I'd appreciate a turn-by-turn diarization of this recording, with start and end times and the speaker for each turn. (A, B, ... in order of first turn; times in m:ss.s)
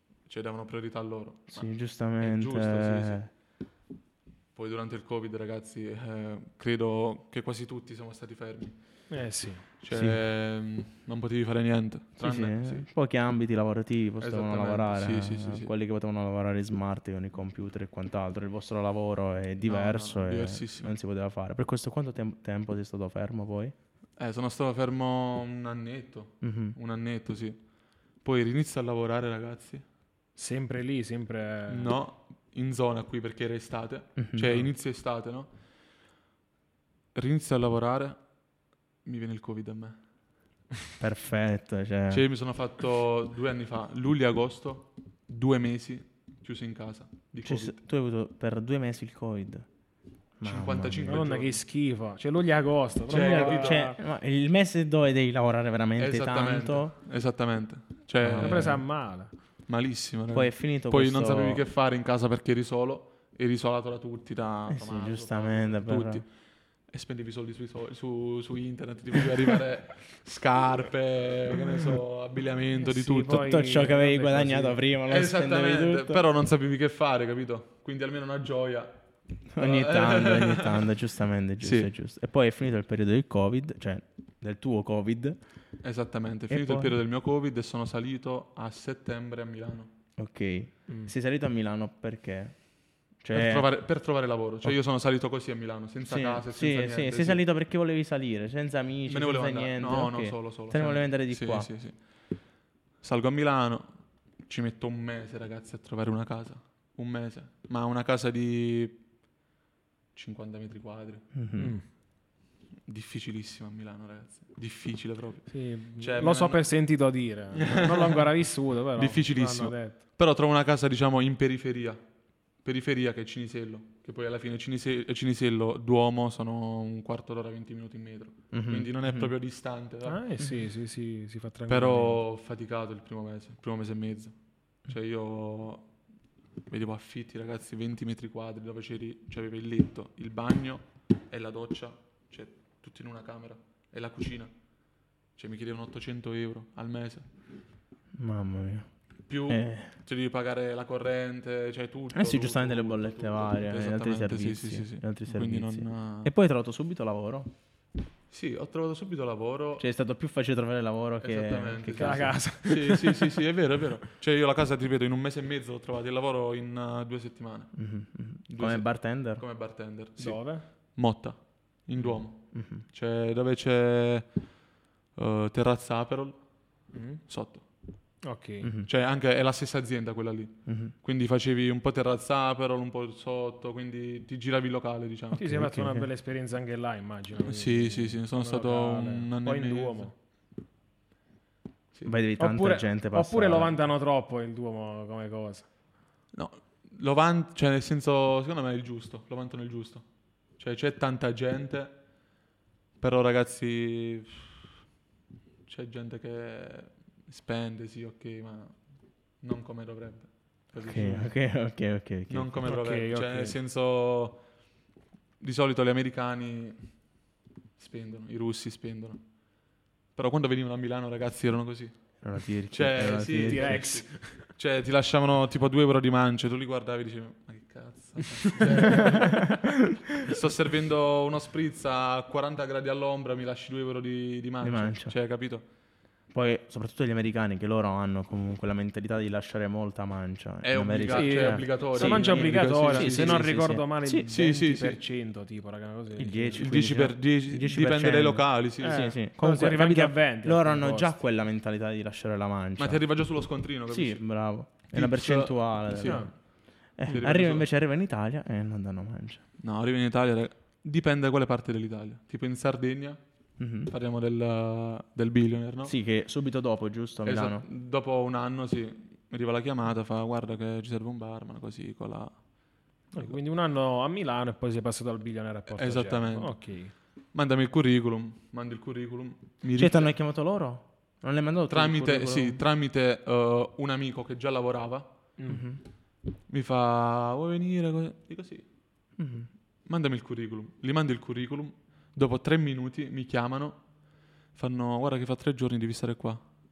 0:00.3-0:03.2 A
0:01.5-0:03.3 B
0:04.6-0:08.8 A
0:09.1-0:09.7 C
0:09.8-0:12.9 A
0:09.9-0:10.2 B
0:12.2-0:23.7 B
0:14.2-0:15.7 A
0:19.6-0:21.0 A
0:24.2-0:27.6 A
0:26.4-0:26.8 B
0:28.2-0:29.8 A
0:30.4-0:31.9 C
0:31.7-0:35.5 A
0:34.2-0:34.7 B
0:37.2-0:38.2 A
0:39.0-0:40.0 A
0:41.0-0:42.3 B
0:42.1-0:47.8 A
0:47.4-0:49.7 B
0:50.4-0:51.2 B
0:50.4-0:51.6 A
0:51.1-0:54.0 C
0:53.1-0:53.9 A
0:53.1-0:56.9 B
0:56.0-0:58.8 A
0:58.2-0:58.8 B
0:58.4-0:59.3 C
0:59.7-1:06.3 A
1:00.3-1:01.6 B
1:04.7-1:06.2 B
1:06.9-1:13.4 A
1:12.8-1:14.8 C
1:12.9-1:16.2 B
1:15.1-1:19.0 A
1:19.5-1:25.4 B
1:19.6-1:20.9 A
1:21.6-1:21.9 A
1:25.8-1:29.9 A
1:26.5-1:27.0 B
1:30.2-1:32.6 B
1:33.2-1:33.7 B
1:33.3-1:37.4 A
1:36.1-1:41.7 B
1:39.1-1:42.0 A
1:43.0-1:43.9 A
1:44.5-1:49.0 A
1:50.1-1:51.3 A
1:51.3-1:51.8 B
1:51.6-1:51.9 C
1:52.9-1:56.6 A
1:55.5-2:00.0 C
1:57.6-1:58.3 A
1:59.0-2:02.0 A
2:02.6-2:10.2 A
2:08.5-2:09.3 B
2:10.0-2:12.2 C
2:11.7-2:14.3 A
2:14.8-2:15.9 A
2:16.7-2:24.5 A
2:25.4-2:27.3 A
2:28.2-2:28.9 B
2:29.3-2:36.3 A
2:29.5-2:29.9 B
2:32.1-2:37.5 B
2:38.3-2:39.8 A
2:39.8-2:42.4 B
2:41.2-2:47.8 A
2:42.0-2:43.2 C
2:47.8-2:49.4 B
2:48.5-2:54.3 A
2:50.2-2:50.7 C
2:52.5-2:52.8 B
2:55.2-2:56.4 A
2:56.9-2:57.2 C
2:57.3-2:57.7 A
2:58.2-2:58.7 C
2:58.6-2:58.9 B
2:58.9-3:05.6 A
3:00.7-3:00.9 B
3:05.4-3:10.1 C
3:05.5-3:06.1 B
3:07.4-3:10.1 A
3:12.0-3:13.8 B
3:12.4-3:15.7 C
3:16.3-3:20.1 A
3:20.6-3:22.0 A
3:23.0-3:24.5 A
3:25.7-3:28.8 A
3:29.4-3:31.4 A
3:30.8-3:32.7 B
3:32.3-3:34.5 A
3:32.7-3:33.6 C
3:35.4-3:37.0 A
3:37.8-3:39.2 A
3:40.2-3:55.6 A
3:42.2-3:44.0 B
3:43.4-3:44.4 C
3:54.6-3:55.1 B
3:56.3-4:04.3 B
4:00.6-4:03.5 A
4:01.1-4:06.7 C
4:04.3-4:05.0 A
4:06.2-4:13.0 B
4:06.6-4:09.1 A
4:08.8-4:11.2 C
4:12.8-4:16.4 A
4:13.9-4:16.4 B
4:16.0-4:16.3 C
4:17.0-4:19.4 B
4:17.1-4:17.7 A
4:19.6-4:23.2 A
4:23.6-4:23.9 B
4:23.9-4:26.0 A
4:25.8-4:27.6 B
4:27.2-4:32.4 A
4:33.1-4:36.9 C
4:35.7-4:36.6 A
4:37.3-4:40.1 A
4:39.8-4:42.6 B
4:41.7-4:45.1 A
4:45.4-4:45.6 C
4:45.5-4:45.8 B
4:46.5-4:48.6 A
4:49.2-4:49.5 B
4:49.9-4:53.8 A
4:54.6-4:56.4 A